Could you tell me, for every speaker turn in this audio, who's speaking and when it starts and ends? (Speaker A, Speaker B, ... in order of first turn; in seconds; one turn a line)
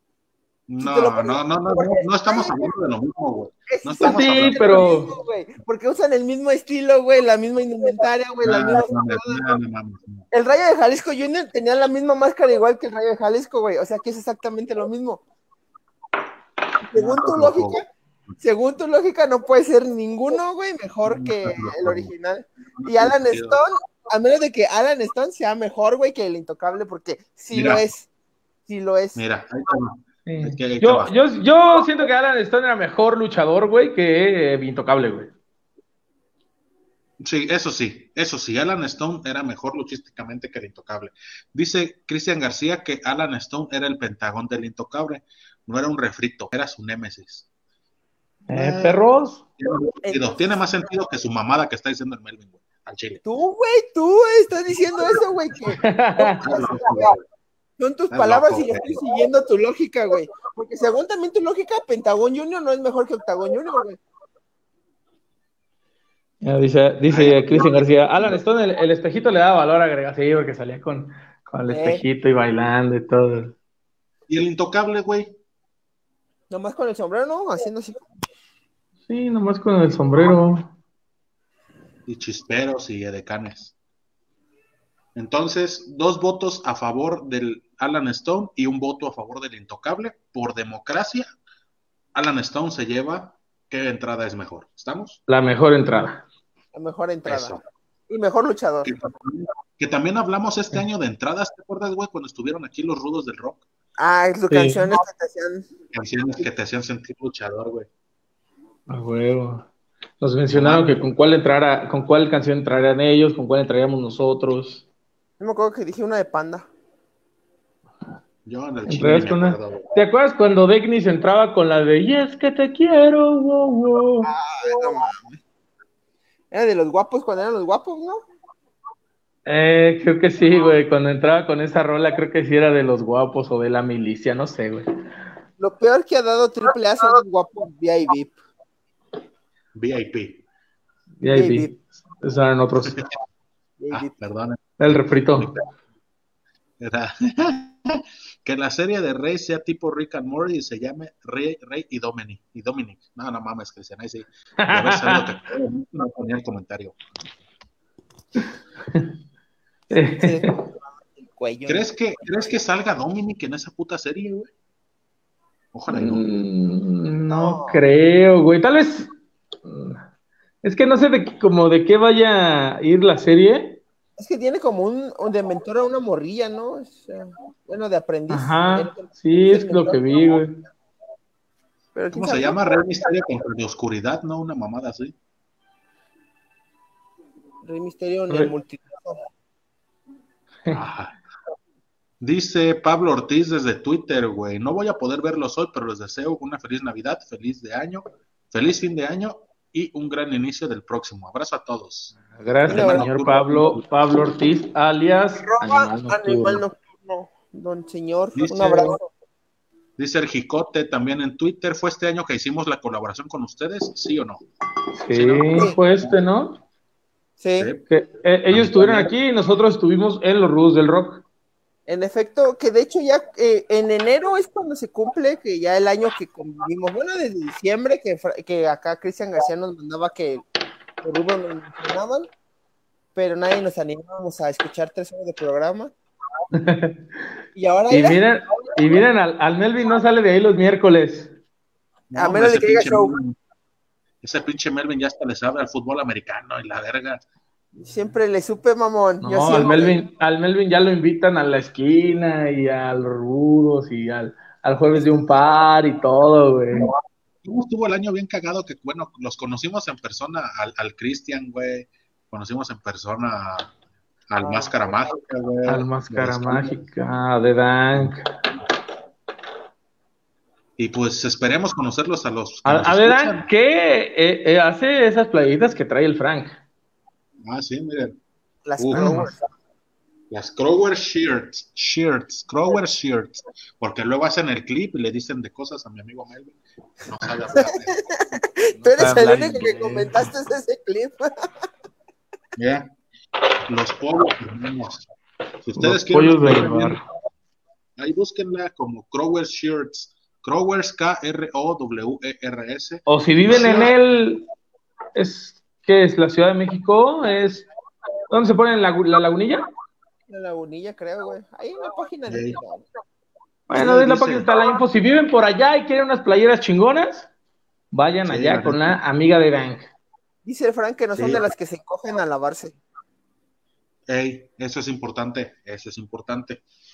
Speaker A: 0.7-4.8
Speaker B: 0.8-2.6
Speaker B: 3.7-9.4
Speaker C: 4.0-5.1
Speaker A: 8.4-10.3
Speaker B: 10.3-15.2
Speaker B: 16.8-17.8
Speaker A: 16.9-18.3
Speaker B: 18.4-28.1
Speaker A: 21.1-22.1
Speaker A: 22.7-23.6
Speaker A: 27.5-27.8
Speaker B: 28.7-29.2
Speaker A: 29.1-31.1
Speaker C: 30.2-35.3
Speaker A: 37.2-47.5
Speaker C: 48.5-49.4
Speaker A: 48.5-49.0
Speaker A: 49.6-53.2
Speaker B: 50.0-50.4
Speaker B: 53.2-57.1
Speaker C: 55.8-56.4
Speaker A: 56.4-57.2
Speaker B: 57.8-64.0
Speaker A: 58.1-59.0
Speaker C: 66.4-73.5
Speaker A: 67.1-68.4
Speaker B: 71.7-72.0
Speaker A: 74.3-75.3
Speaker B: 76.5-78.0
Speaker C: 79.1-80.7
Speaker A: 82.1-83.7
Speaker A: 85.1-91.3
Speaker A: 92.1-95.2
Speaker C: 95.3-96.2
Speaker B: 96.7-97.5
Speaker A: 97.2-97.6
Speaker B: 98.1-98.9
Speaker A: 98.8-103.6
Speaker B: 104.0-105.7
Speaker C: 104.5-104.9
Speaker A: 105.9-107.9
Speaker C: 108.9-109.7
Speaker C: 110.2-114.8
Speaker A: 110.5-110.9
Speaker B: 115.4-116.7
Speaker A: 118.5-119.8
Speaker C: 118.9-124.3
Speaker B: 124.2-125.4
Speaker B: 126.5-128.2
Speaker C: 129.4-134.8
Speaker B: 135.6-138.4
Speaker A: 139.7-140.4
Speaker C: 141.2-143.0
Speaker B: 141.3-141.7
Speaker B: 143.8-144.1
Speaker A: 143.9-144.8
Speaker C: 144.8-145.5
Speaker A: 145.3-145.7
Speaker A: 146.8-157.0
Speaker C: 154.6-155.3
Speaker C: 159.9-160.5
Speaker B: 159.9-161.9
Speaker A: 161.7-164.5
Speaker A: 165.7-166.2
Speaker C: 165.9-169.1
Speaker B: 167.3-167.8
Speaker C: 169.6-170.0
Speaker C: 170.6-173.8
Speaker B: 174.2-180.2
Speaker C: 178.3-180.6
Speaker B: 181.9-182.6
Speaker A: 182.1-185.1
Speaker B: 187.6-189.3
Speaker A: 190.7-191.2
Speaker A: 192.2-203.8
Speaker C: 202.3-206.6
Speaker B: 202.7-203.3
Speaker B: 205.4-209.1
Speaker A: 208.3-209.0
Speaker A: 210.0-214.4
Speaker C: 215.0-216.6
Speaker A: 215.1-216.2
Speaker B: 217.4-217.7
Speaker A: 217.6-217.8
Speaker C: 217.9-221.2
Speaker A: 218.5-219.2
Speaker B: 221.9-230.4
Speaker B: 231.0-232.3
Speaker B: 233.1-235.9
Speaker C: 236.5-237.0
Speaker B: 237.5-238.2
Speaker C: 237.9-241.3
Speaker A: 242.1-243.3
Speaker B: 242.2-243.1
Speaker A: 244.2-247.2
Speaker B: 247.8-250.0
Speaker C: 249.2-256.9
Speaker B: 255.0-255.3
Speaker A: 257.4-263.7
Speaker A: 264.3-266.8
Speaker B: 264.4-264.9
Speaker C: 265.7-268.3
Speaker A: 270.8-273.5
Speaker C: 272.6-276.6
Speaker A: 277.4-278.2
Speaker B: 278.6-279.4
Speaker A: 278.8-279.2
Speaker C: 278.9-279.3
Speaker A: 280.3-288.1
Speaker B: 287.6-291.3
Speaker C: 288.9-290.3
Speaker A: 292.6-292.9
Speaker A: 293.7-295.1
Speaker A: 295.6-297.0
Speaker C: 295.8-297.0
Speaker A: 298.0-303.9
Speaker C: 303.1-304.4
Speaker C: 305.1-307.6
Speaker C: 308.3-309.6
Speaker B: 310.3-312.9
Speaker A: 312.3-312.6
Speaker C: 313.7-317.3
Speaker A: 313.7-314.5
Speaker C: 317.9-319.9
Speaker A: 318.2-318.9
Speaker B: 320.4-322.8
Speaker A: 321.1-321.4
Speaker A: 324.1-326.6